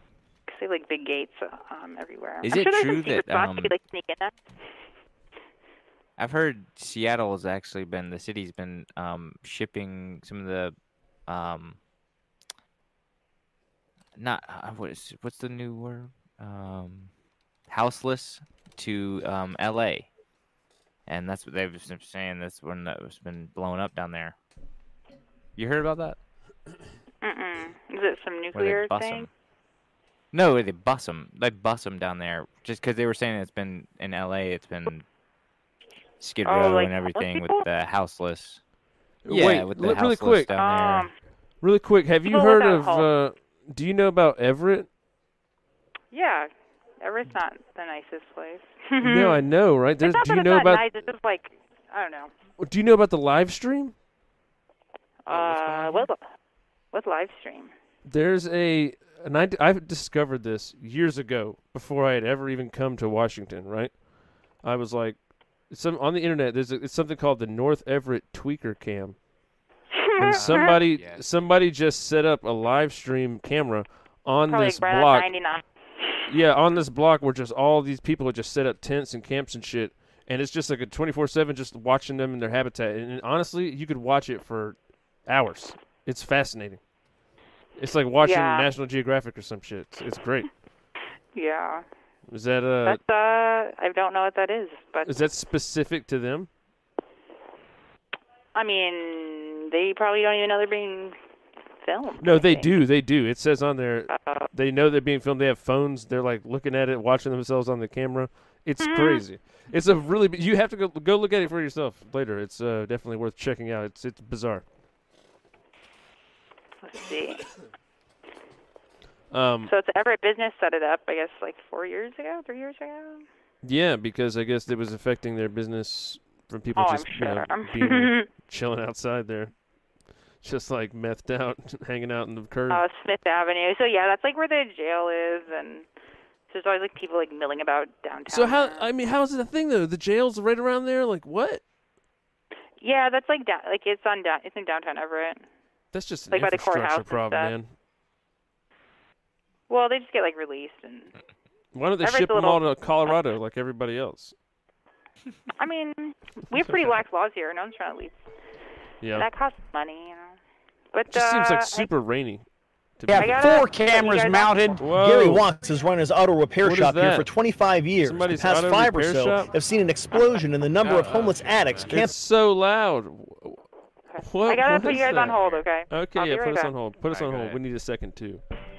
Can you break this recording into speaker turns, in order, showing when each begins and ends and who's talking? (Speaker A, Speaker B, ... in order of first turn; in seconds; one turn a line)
Speaker A: 0.5-4.3
Speaker B: 2.4-3.7
Speaker B: 6.2-10.7
Speaker B: 11.3-11.8
Speaker B: 14.2-17.1
Speaker B: 17.7-20.1
Speaker B: 21.1-24.4
Speaker B: 25.6-26.2
Speaker A: 27.2-29.3
Speaker B: 28.5-29.3
Speaker B: 30.3-35.0
Speaker B: 36.2-38.6
Speaker A: 36.4-37.6
Speaker C: 39.2-40.5
Speaker B: 39.3-41.1
Speaker A: 40.5-41.1
Speaker C: 41.6-44.9
Speaker A: 42.3-43.1
Speaker A: 46.1-49.4
Speaker C: 49.0-51.0
Speaker A: 50.0-52.3
Speaker C: 52.6-53.9
Speaker A: 55.2-56.2
Speaker B: 55.3-56.1
Speaker A: 56.9-57.7
Speaker C: 58.0-64.0
Speaker C: 64.6-65.2
Speaker C: 65.7-69.2
Speaker A: 69.9-70.7
Speaker C: 70.2-75.3
Speaker B: 70.3-71.2
Speaker A: 74.5-75.6
Speaker C: 76.3-86.8
Speaker C: 87.8-90.5
Speaker A: 88.2-88.7
Speaker A: 91.3-91.8
Speaker C: 92.3-93.0
Speaker A: 92.8-95.1
Speaker C: 95.0-96.5
Speaker A: 98.5-101.2
Speaker A: 101.8-102.8
Speaker C: 102.2-114.6
Speaker A: 104.1-104.5
Speaker A: 108.8-109.2
Speaker A: 116.8-117.5
Speaker C: 119.3-119.7
Speaker A: 119.7-123.2
Speaker C: 123.6-129.5
Speaker A: 126.8-128.3
Speaker C: 130.4-132.8
Speaker A: 132.7-135.9
Speaker A: 136.5-138.9
Speaker C: 138.3-141.6
Speaker A: 142.8-145.4
Speaker C: 145.9-147.7
Speaker A: 146.3-147.5
Speaker A: 149.7-151.1
Speaker C: 151.7-154.3
Speaker A: 152.0-153.2
Speaker A: 155.6-158.2
Speaker C: 156.5-156.9
Speaker C: 159.0-159.3
Speaker A: 159.1-160.4
Speaker A: 160.9-161.9
Speaker C: 161.1-162.4
Speaker C: 163.0-163.4
Speaker D: 163.1-172.2
Speaker A: 163.1-164.7
Speaker C: 164.8-165.5
Speaker C: 166.6-167.3
Speaker C: 168.0-169.5
Speaker B: 170.8-172.0
Speaker C: 170.8-171.3
Speaker C: 171.9-173.6
Speaker A: 174.1-176.7
Speaker C: 174.2-178.4
Speaker B: 174.8-175.7
Speaker B: 177.0-177.6